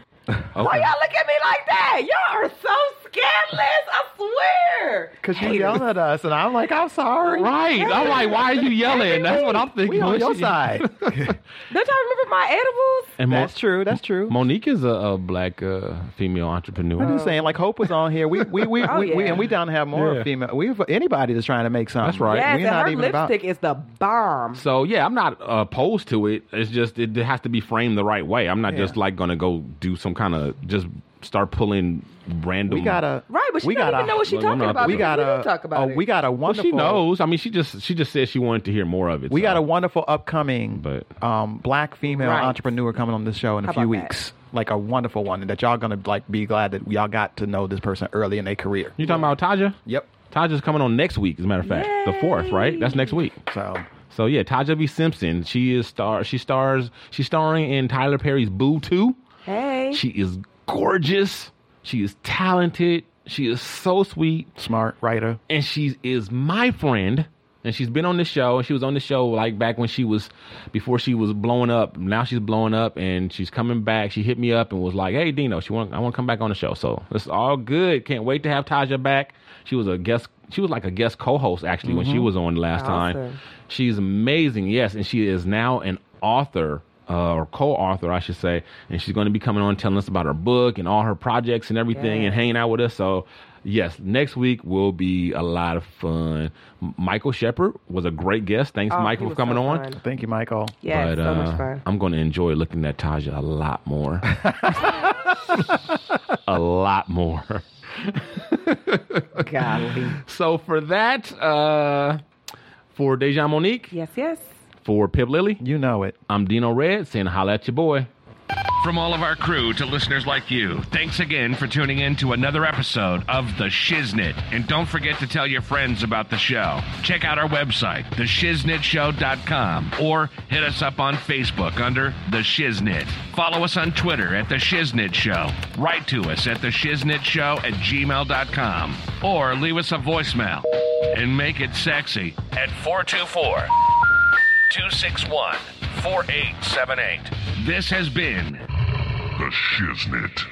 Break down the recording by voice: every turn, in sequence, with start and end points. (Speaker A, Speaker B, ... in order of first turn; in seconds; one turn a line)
Speaker A: 0.6-0.9
Speaker B: 0.6-5.8
Speaker C: 5.2-7.5
Speaker A: 7.3-11.3
Speaker B: 7.8-9.7
Speaker C: 9.8-11.4
Speaker B: 11.7-13.1
Speaker A: 13.2-13.6
Speaker C: 13.3-14.4
Speaker A: 14.3-17.1
Speaker C: 17.0-23.3
Speaker B: 17.0-17.5
Speaker A: 18.4-18.9
Speaker B: 18.9-19.4
Speaker A: 19.9-20.3
Speaker A: 22.0-22.5
Speaker B: 22.3-24.6
Speaker A: 24.5-33.0
Speaker C: 28.7-29.0
Speaker C: 32.7-37.0
Speaker B: 33.3-36.0
Speaker A: 34.2-35.1
Speaker A: 36.5-39.6
Speaker C: 39.3-49.3
Speaker A: 40.8-41.1
Speaker B: 42.2-42.7
Speaker B: 43.6-44.1
Speaker A: 49.0-49.8
Speaker A: 50.3-53.4
Speaker B: 51.6-53.2
Speaker C: 53.5-53.9
Speaker A: 54.1-59.2
Speaker B: 59.5-60.0
Speaker A: 59.9-64.5
Speaker C: 64.6-65.4
Speaker A: 65.5-99.8
Speaker C: 81.8-82.3
Speaker B: 82.8-83.4
Speaker B: 91.9-92.4
Speaker B: 98.9-100.0
Speaker C: 100.0-100.8
Speaker B: 100.8-101.8
Speaker A: 100.9-112.2
Speaker C: 104.4-104.9
Speaker B: 109.4-110.2
Speaker A: 112.9-113.9
Speaker B: 113.9-114.6
Speaker A: 114.8-115.6
Speaker C: 115.6-116.2
Speaker A: 116.3-118.1
Speaker D: 118.8-143.7
Speaker D: 144.7-148.6
Speaker D: 149.5-150.4